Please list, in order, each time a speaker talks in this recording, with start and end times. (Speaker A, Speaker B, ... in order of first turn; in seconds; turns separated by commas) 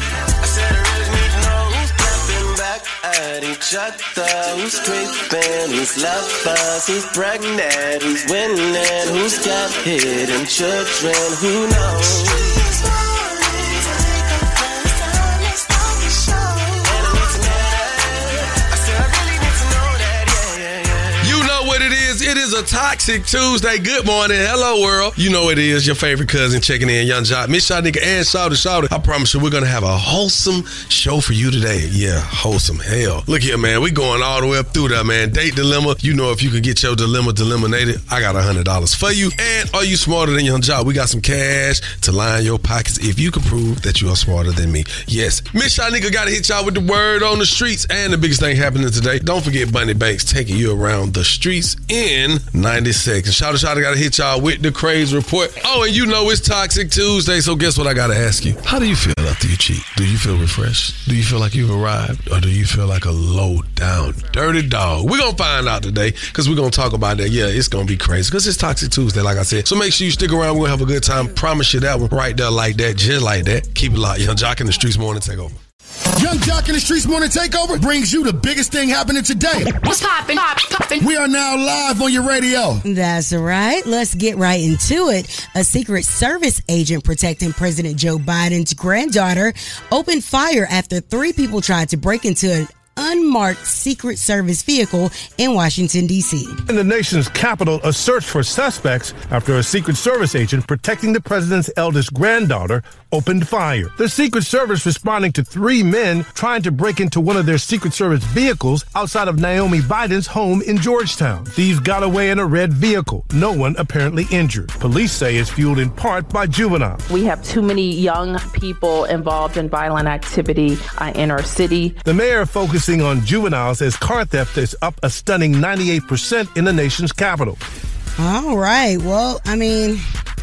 Speaker A: 0.4-21.4, Speaker B: 21.2-75.6, Speaker C: 76.2-79.8, Speaker C: 81.0-82.8, Speaker D: 82.8-96.6, Speaker E: 96.7-117.0, Speaker F: 117.1-122.0, Speaker E: 122.0-127.6, Speaker D: 128.2-130.0